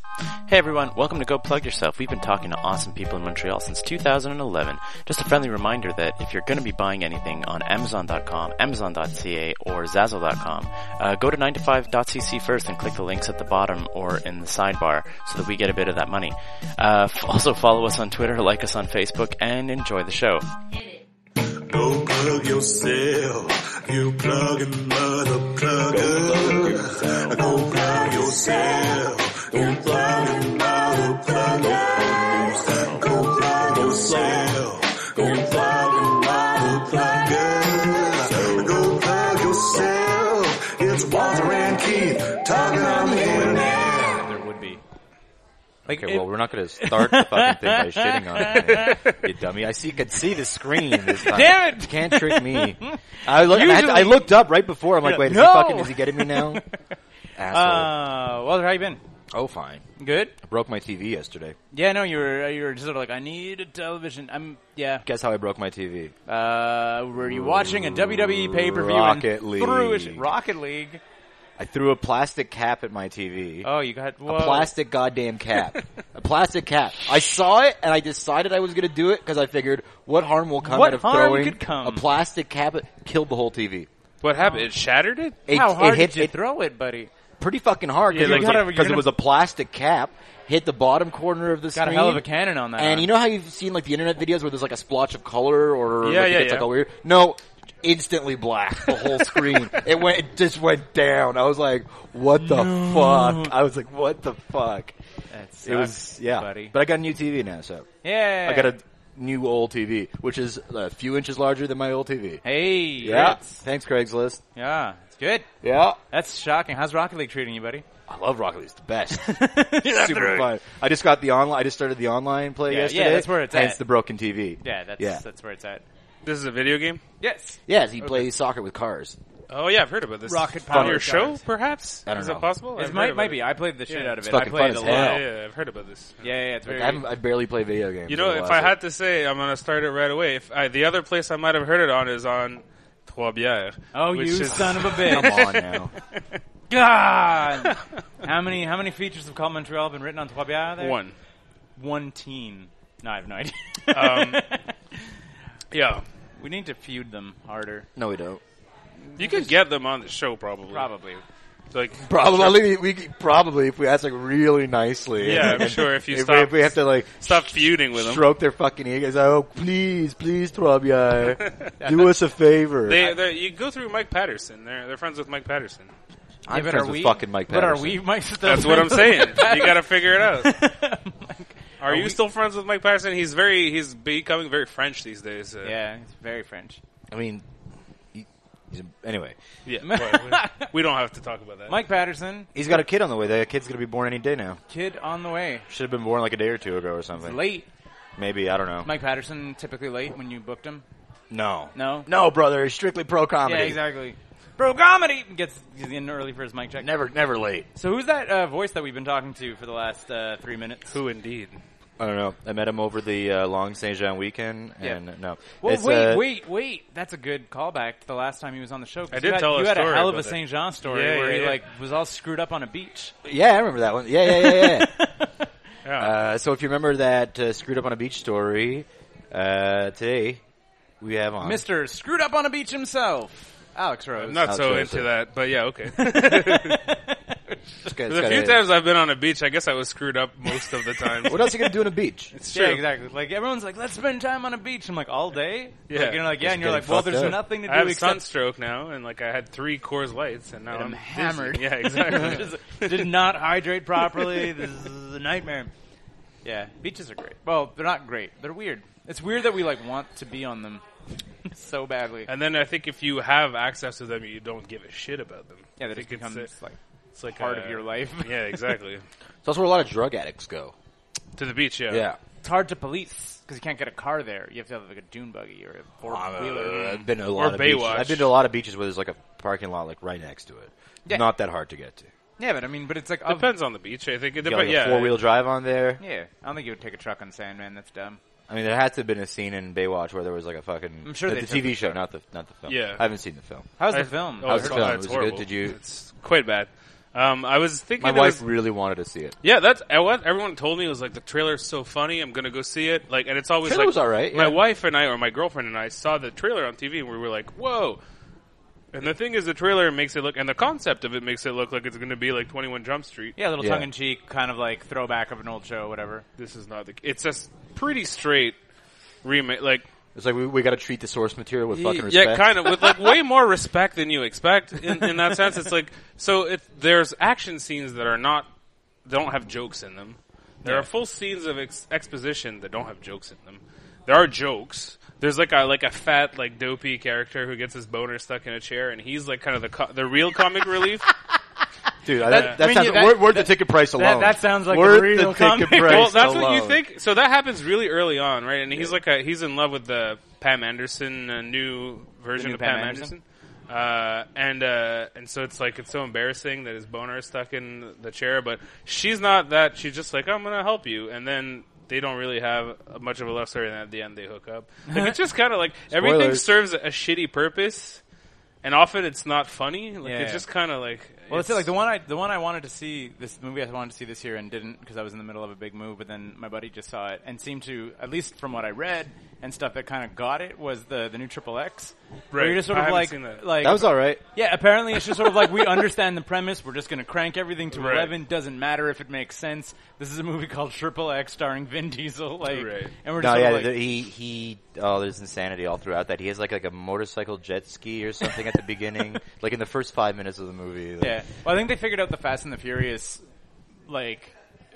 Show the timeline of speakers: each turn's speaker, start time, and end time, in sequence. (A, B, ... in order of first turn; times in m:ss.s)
0:00.5-0:20.4 A
0:21.6-0:44.2 B
0:42.9-0:44.8 C
0:45.9-0:49.2 C
0:45.9-0:56.6 D
0:50.9-0:54.5 C
0:55.0-0:56.8 C
0:57.4-0:57.9 D
0:57.5-0:59.0 C
0:59.3-0:59.8 D
1:00.0-1:00.4 C
1:00.4-1:01.6 D
1:01.7-1:05.0 C
1:05.0-1:06.1 D
1:06.3-1:11.0 C
1:07.3-1:10.3 D
1:11.6-1:13.7 D
1:13.6-1:14.7 C
1:14.3-1:23.9 D
1:20.6-1:22.1 C
1:24.2-1:25.4 E
1:25.5-1:26.4 D
1:25.5-1:27.1 C
1:27.4-1:32.2 D
1:28.1-1:28.7 E
1:28.1-1:29.1 C
1:31.7-1:33.1 C
1:32.8-1:45.0 D
1:36.0-1:36.7 E
1:42.4-1:43.5 C
1:45.3-1:46.7 C
1:45.6-1:52.4 D
1:48.0-1:48.7 C
1:52.4-1:53.6 C
1:53.0-1:54.4 D
1:54.6-1:55.5 C
1:55.6-1:56.0 D
1:56.1-1:57.8 C
1:58.1-2:05.2 D
1:59.1-2:00.5 C
2:02.7-2:03.8 C
2:04.6-2:05.8 C
2:06.3-2:07.0 E
2:07.2-2:07.6 C
2:07.7-2:09.2 D
2:09.5-2:14.2 E
2:10.3-2:11.4 C
2:10.7-2:11.0 D
2:12.1-2:12.5 D
2:12.8-2:15.2 C
2:14.2-2:15.2 D
2:14.8-2:16.2 E
2:16.2-2:17.0 C
2:16.7-2:18.8 D
2:18.1-2:25.5 E
2:23.9-2:25.6 C
2:25.0-2:25.9 D
2:26.7-2:31.0 C
2:27.5-2:27.8 E
2:30.8-2:31.1 E
2:31.8-2:35.0 C
2:33.9-2:34.4 E
2:35.7-2:36.0 E
2:36.4-2:37.9 C
2:38.0-2:38.4 D
2:39.1-2:39.5 C
2:39.2-2:40.9 E
2:40.7-2:41.2 C
2:41.7-2:42.6 E
2:42.0-2:53.0 D
2:45.2-2:48.3 E
2:51.4-2:51.7 E
2:51.8-2:52.1 C
2:52.8-2:55.9 E
2:56.5-2:58.0 D
2:56.5-3:02.2 C
2:58.4-3:00.6 E
3:01.8-3:05.8 E
3:05.6-3:06.8 C
3:07.1-3:07.4 D
3:08.1-3:09.4 D
3:09.7-3:11.8 E
3:09.8-3:10.7 C
3:11.7-3:12.5 C
3:12.6-3:14.6 D
3:14.7-3:15.7 C
3:15.7-3:17.4 D
3:17.2-3:17.7 C
3:18.2-3:18.9 D
3:18.8-3:20.8 C
3:21.3-3:23.8 D
3:21.8-3:22.1 C
3:23.4-3:26.9 C
3:26.8-3:27.7 D
3:27.8-3:31.0 C
3:30.9-3:31.6 E
3:32.0-3:36.3 D
3:35.6-3:43.1 C
3:39.1-3:41.6 E
3:43.2-3:45.0 D
3:44.3-3:45.3 C
3:45.8-3:46.1 E
3:46.0-3:50.4 D
3:51.0-3:51.6 D
3:51.4-3:54.7 C
3:54.2-3:56.8 E
3:54.4-3:55.1 D
3:56.0-3:57.6 C
3:57.8-3:58.6 D
3:58.1-4:01.5 E
4:01.3-4:02.3 D
4:02.4-4:02.8 E
4:02.5-4:08.2 C
4:05.9-4:06.2 E
4:06.4-4:07.4 D
4:07.2-4:13.1 E
4:10.7-4:15.7 C
4:14.2-4:14.5 E
4:16.4-4:20.8 C
4:21.4-4:22.3 C
4:22.3-4:26.5 E
4:25.8-4:26.8 C
4:27.2-4:29.0 E
4:27.3-4:28.6 C
4:29.4-4:30.7 D
4:31.4-4:32.0 E
4:31.9-4:32.2 D
4:32.4-4:37.0 C
4:36.1-4:42.1 D
4:36.9-4:38.3 E
4:42.4-4:43.5 C
4:43.3-4:45.2 E
4:44.4-4:46.0 D
4:46.0-4:48.2 C
4:48.5-4:53.7 D
4:51.0-4:52.0 C
4:52.7-4:53.0 E
4:53.8-4:54.9 C
4:53.9-4:58.4 E
4:54.4-4:55.8 D
4:58.0-4:59.4 D
4:59.4-5:08.0 E
5:03.6-5:04.6 D
5:08.9-5:13.4 E
5:13.4-5:16.2 C
5:13.6-5:13.9 D
5:16.4-5:18.6 E
5:19.2-5:19.9 E
5:20.2-5:22.9 D
5:21.7-5:28.5 E
5:29.0-5:41.1 E
5:42.0-5:46.8 D
5:42.2-5:46.3 C
5:42.3-5:42.6 E
5:45.8-6:08.0 E
5:52.4-5:53.1 C
6:04.9-6:05.1 C
6:05.9-6:06.5 D
6:08.6-6:11.7 E
6:10.0-6:10.4 C
6:11.3-6:33.9 C
6:22.3-6:23.4 E
6:23.6-6:24.2 D
6:27.8-6:28.1 E
6:32.5-6:32.9 E
6:33.2-6:41.2 D
6:41.0-6:43.2 C
6:43.9-6:44.4 C